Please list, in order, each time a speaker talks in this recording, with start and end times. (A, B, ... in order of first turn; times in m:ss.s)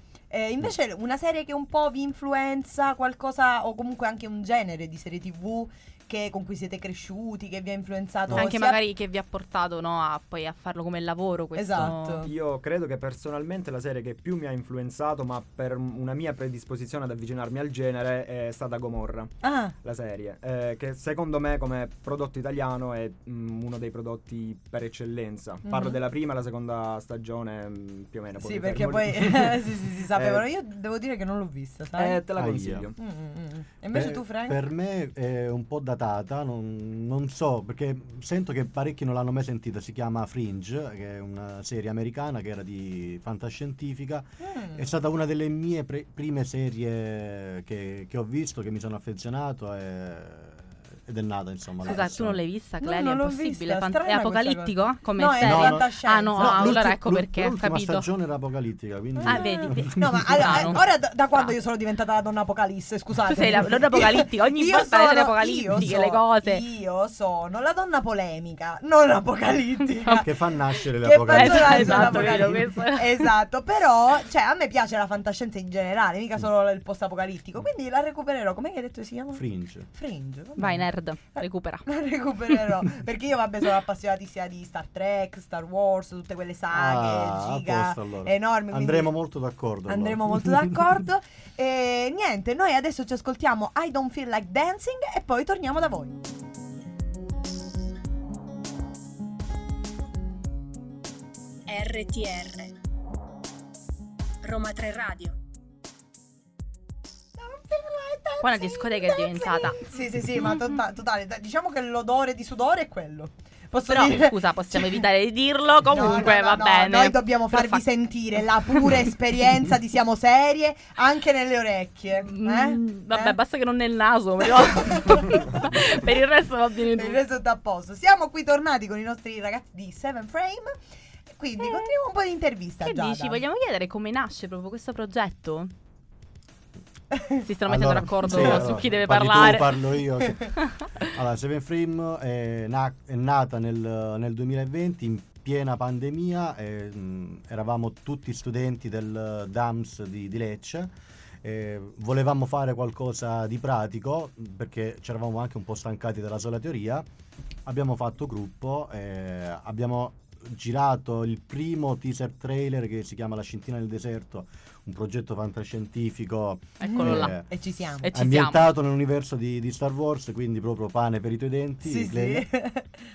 0:00.3-0:08.8 A
0:08.3-0:12.3 B
0:11.5-0:12.3 A
0:11.8-0:30.5 C
0:19.4-0:19.7 A
0:25.7-0:26.0 A
0:28.4-0:32.2 A
0:32.0-0:33.0 C
0:32.4-0:32.9 D
0:33.0-0:34.6 A
0:33.9-0:52.4 D
0:44.4-0:44.9 A
0:51.8-0:58.1 B
0:52.8-0:56.9 A
0:55.4-1:00.8 D
0:59.2-1:00.8 B
0:59.2-1:10.4 A
1:03.3-1:06.6 B
1:10.2-1:12.6 D
1:11.0-1:20.9 A
1:11.2-1:13.3 B
1:19.3-1:19.9 D
1:20.6-1:21.8 B
1:21.8-1:29.1 A
1:26.7-1:30.8 D
1:29.9-1:36.2 A
1:41.7-1:42.7 E
1:44.4-1:45.4 E
1:47.4-1:55.0 A
1:48.4-1:49.8 B
1:53.9-1:57.8 B
1:55.8-2:03.4 A
2:02.1-2:07.2 B
2:04.6-2:06.0 A
2:06.9-2:10.7 A
2:11.3-2:13.4 A
2:11.6-2:11.9 B
2:12.8-2:15.7 B
2:17.1-2:17.4 A
2:17.4-2:19.8 B
2:17.6-2:30.9 D
2:18.2-2:18.8 A
2:20.8-2:21.0 B
2:31.4-2:37.0 D
2:37.6-2:47.5 D
2:46.8-2:47.4 B
2:46.8-2:48.1 A
2:48.0-2:48.7 B
2:48.1-2:52.5 D
2:51.8-2:53.0 A